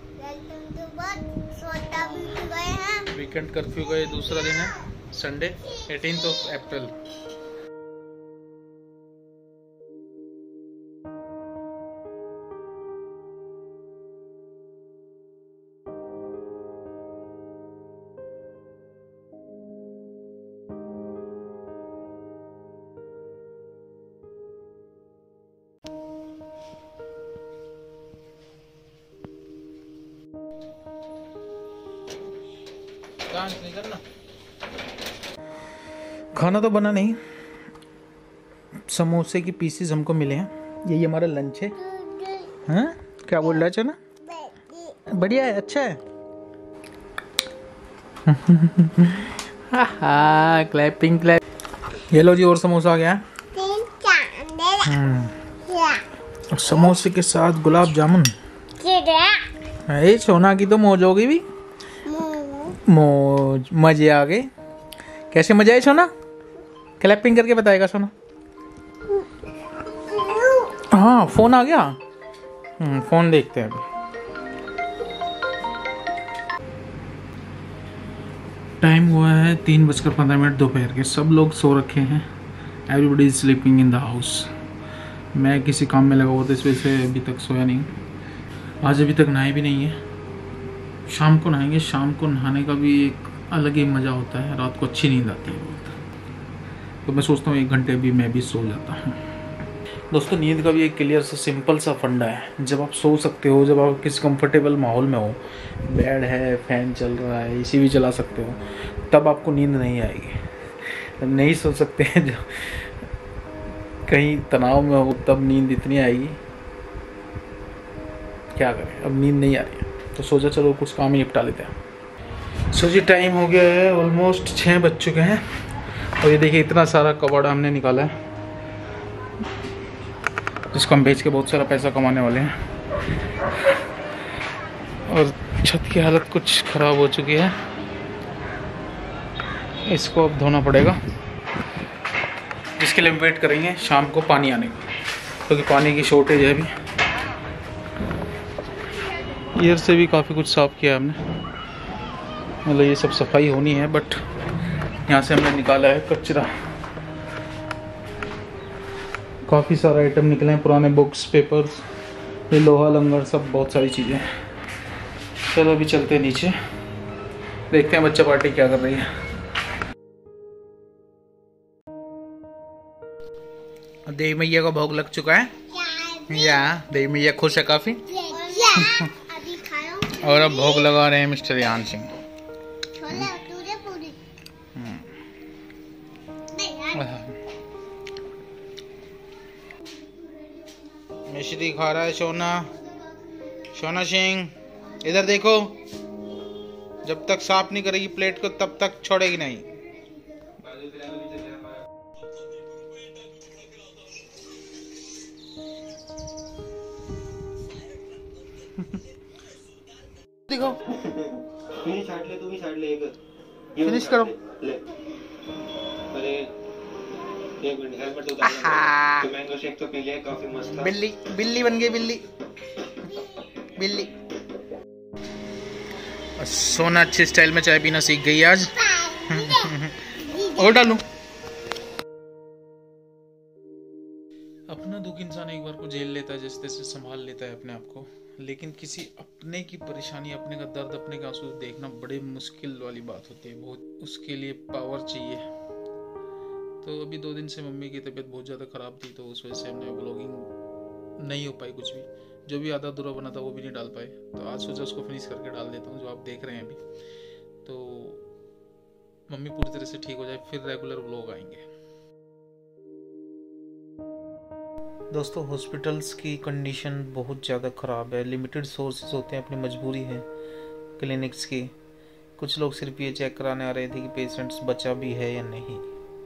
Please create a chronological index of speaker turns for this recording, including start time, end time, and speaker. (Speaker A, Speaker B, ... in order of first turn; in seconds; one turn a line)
Speaker A: 0.2-3.1
Speaker B: 3.1-6.9
Speaker B: 33.3-34.0
Speaker B: 36.3-37.2
Speaker B: 38.9-41.9
Speaker A: 41.8-42.6
Speaker B: 42.6-44.0
Speaker A: 44.2-45.0
Speaker B: 45.1-46.0
Speaker B: 48.2-51.4
Speaker B: 52.0-53.2
Speaker A: 53.5-55.0
Speaker B: 54.8-55.4
Speaker A: 55.7-56.0
Speaker B: 56.5-58.3
Speaker A: 58.8-59.5
Speaker B: 59.9-61.4
Speaker A: 62.0-62.8
Speaker B: 62.8-64.5
Speaker B: 65.3-66.1
Speaker B: 67.0-68.1
Speaker A: 70.1-70.6
Speaker B: 70.7-72.0
Speaker B: 72.8-73.8
Speaker B: 78.8-82.3
Speaker B: 82.9-84.5
Speaker B: 85.3-87.9
Speaker B: 88.8-90.0
Speaker B: 91.1-96.0
Speaker B: 97.0-99.2
Speaker B: 100.1-112.9
Speaker B: 114.0-116.4
Speaker B: 118.5-121.7
Speaker B: 122.7-125.5
Speaker B: 126.2-128.1
Speaker B: 130.7-132.5
Speaker B: 135.1-137.6
Speaker B: 139.8-141.0
Speaker B: 142.8-144.8
Speaker B: 145.4-146.7
Speaker B: 149.5-151.2
Speaker B: 152.6-154.2
Speaker B: 155.0-156.5
Speaker B: 159.4-161.8
Speaker B: 162.5-164.3
Speaker B: 165.4-166.6
Speaker B: 167.7-169.1
Speaker B: 174.1-175.6
Speaker A: 175.7-176.7
Speaker B: 176.3-178.1
Speaker A: 178.1-180.9
Speaker B: 178.7-179.1
Speaker B: 180.2-182.1
Speaker A: 182.9-184.2
Speaker B: 184.7-185.1
Speaker A: 186.5-187.1
Speaker B: 186.9-187.4
Speaker B: 191.2-192.7
Speaker B: 193.7-195.8
Speaker B: 197.0-199.7
Speaker C: 200.8-201.6
Speaker B: 210.5-210.8
Speaker C: 211.0-213.2
Speaker C: 213.8-214.8
Speaker B: 213.8-214.3
Speaker C: 216.1-216.5
Speaker C: 217.6-220.9
Speaker B: 218.4-219.3
Speaker B: 220.7-222.2
Speaker B: 223.7-224.1
Speaker B: 226.4-231.0
Speaker A: 229.0-229.7
Speaker A: 230.3-230.6
Speaker B: 234.7-245.5
Speaker B: 246.8-250.5
Speaker B: 251.2-256.8
Speaker B: 257.6-258.2
Speaker B: 259.3-261.6
Speaker B: 265.1-270.2
Speaker B: 271.0-271.7
Speaker B: 272.4-275.8